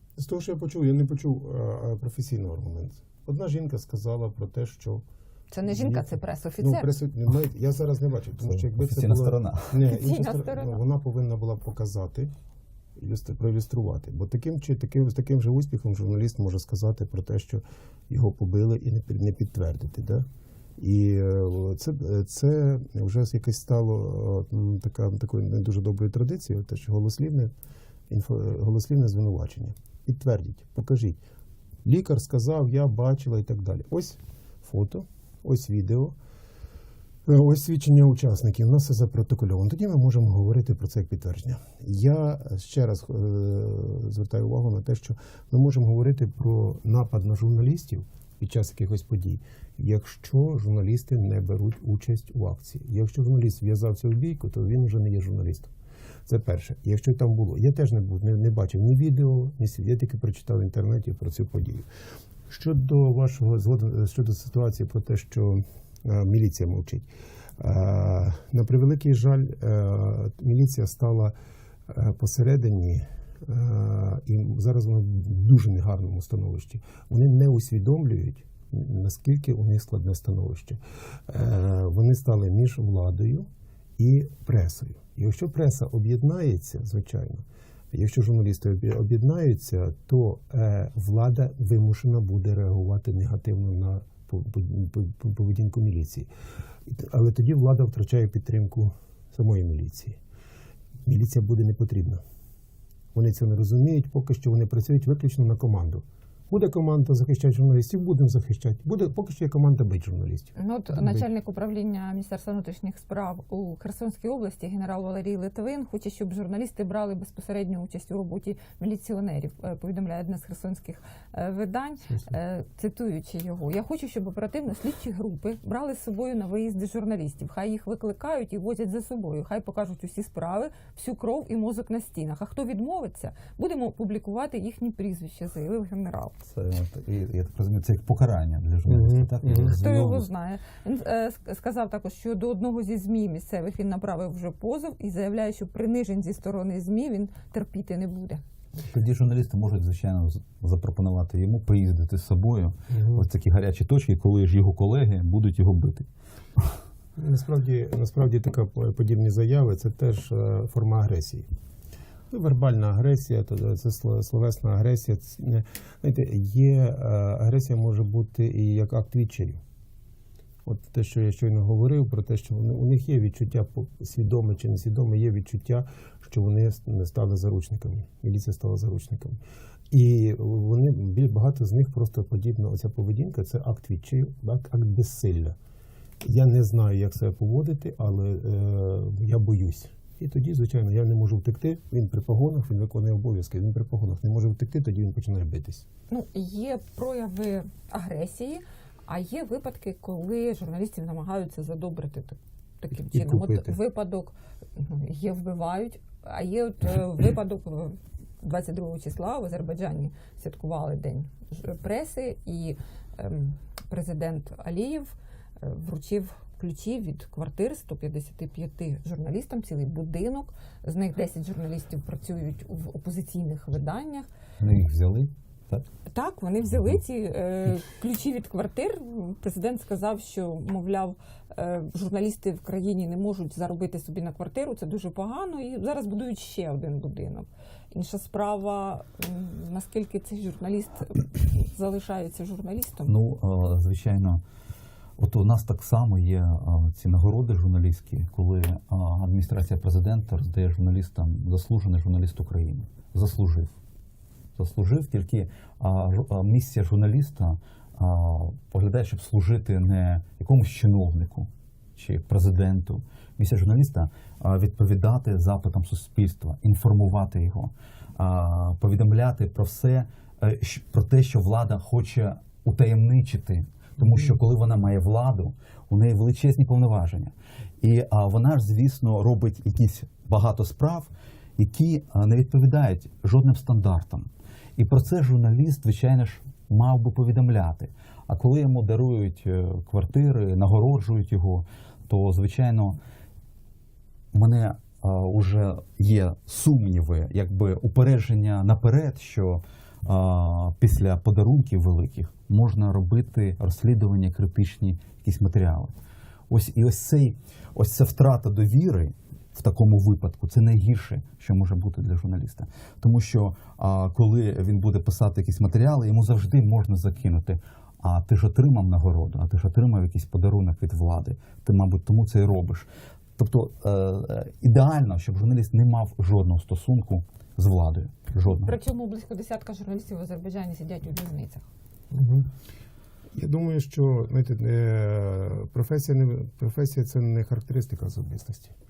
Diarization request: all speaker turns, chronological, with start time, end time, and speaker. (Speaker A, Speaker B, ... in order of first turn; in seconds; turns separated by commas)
Speaker A: 0.2-5.0, Speaker B: 5.5-6.9, Speaker A: 5.6-12.3, Speaker C: 8.4-9.8, Speaker B: 9.8-10.8, Speaker A: 13.0-20.2, Speaker A: 20.8-27.5, Speaker A: 28.1-31.2, Speaker A: 31.8-36.2, Speaker A: 37.2-55.7, Speaker A: 56.2-61.9, Speaker A: 62.5-71.3, Speaker A: 71.9-96.3, Speaker A: 96.8-100.2, Speaker A: 101.0-102.2, Speaker A: 103.1-111.2, Speaker B: 110.5-136.4, Speaker C: 136.5-140.3, Speaker A: 138.9-139.8, Speaker B: 139.8-148.4, Speaker C: 148.9-156.1, Speaker A: 152.9-153.2, Speaker A: 157.2-161.5, Speaker A: 162.3-169.6, Speaker A: 170.6-179.4, Speaker A: 179.9-185.6, Speaker A: 186.2-195.8, Speaker B: 196.1-224.3, Speaker A: 203.1-203.8, Speaker C: 224.6-225.9, Speaker B: 226.1-243.1, Speaker C: 243.1-244.4, Speaker C: 245.2-253.7, Speaker C: 254.6-293.0, Speaker C: 294.3-306.0, Speaker C: 306.5-328.8, Speaker B: 328.5-331.6, Speaker A: 332.1-332.5, Speaker A: 333.3-338.7